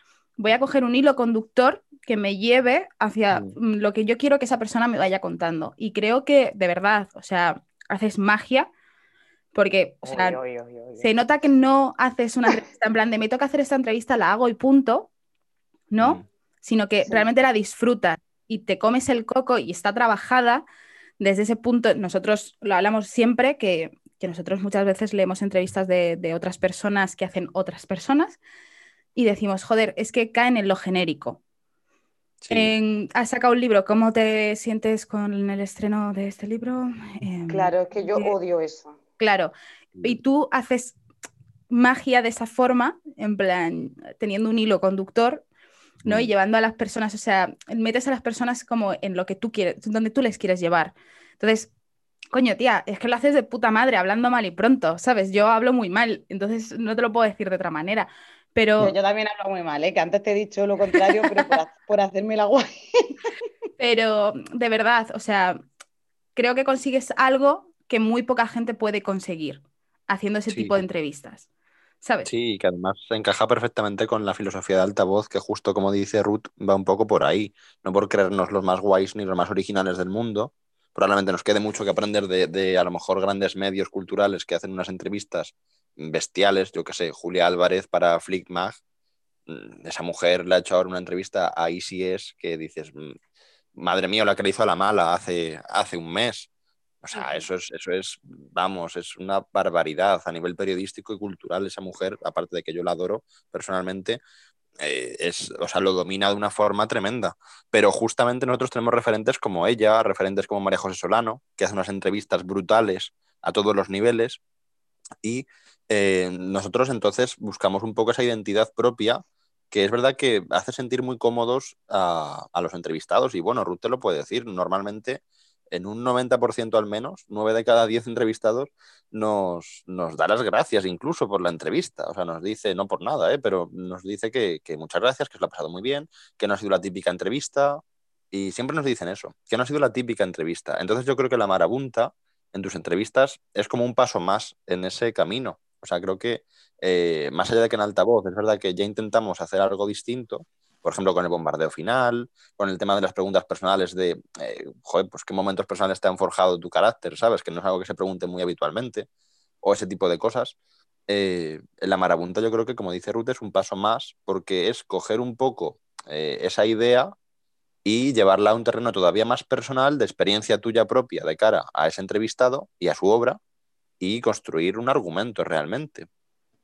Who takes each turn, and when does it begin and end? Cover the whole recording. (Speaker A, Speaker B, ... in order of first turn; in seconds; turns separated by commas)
Speaker A: 0.4-8.7, Speaker B: 3.3-3.6, Speaker A: 9.5-10.4, Speaker C: 10.0-11.1, Speaker A: 11.0-15.1, Speaker A: 15.9-20.6, Speaker B: 16.0-16.2, Speaker A: 21.2-28.4, Speaker A: 29.1-31.4, Speaker B: 32.4-32.7, Speaker A: 32.5-38.3, Speaker C: 37.5-38.9, Speaker A: 39.2-41.0, Speaker A: 41.7-45.5, Speaker B: 46.0-46.3, Speaker A: 46.1-51.7, Speaker A: 52.3-58.9, Speaker C: 58.8-63.1, Speaker A: 63.8-65.6, Speaker A: 66.4-71.5, Speaker B: 70.5-70.8, Speaker A: 72.0-72.3, Speaker B: 72.3-88.8, Speaker B: 89.5-93.2, Speaker B: 93.8-96.5, Speaker B: 97.0-104.2, Speaker B: 104.8-114.4, Speaker B: 115.2-159.1, Speaker B: 159.6-160.6, Speaker B: 161.1-167.2, Speaker B: 167.8-173.4, Speaker B: 174.0-176.1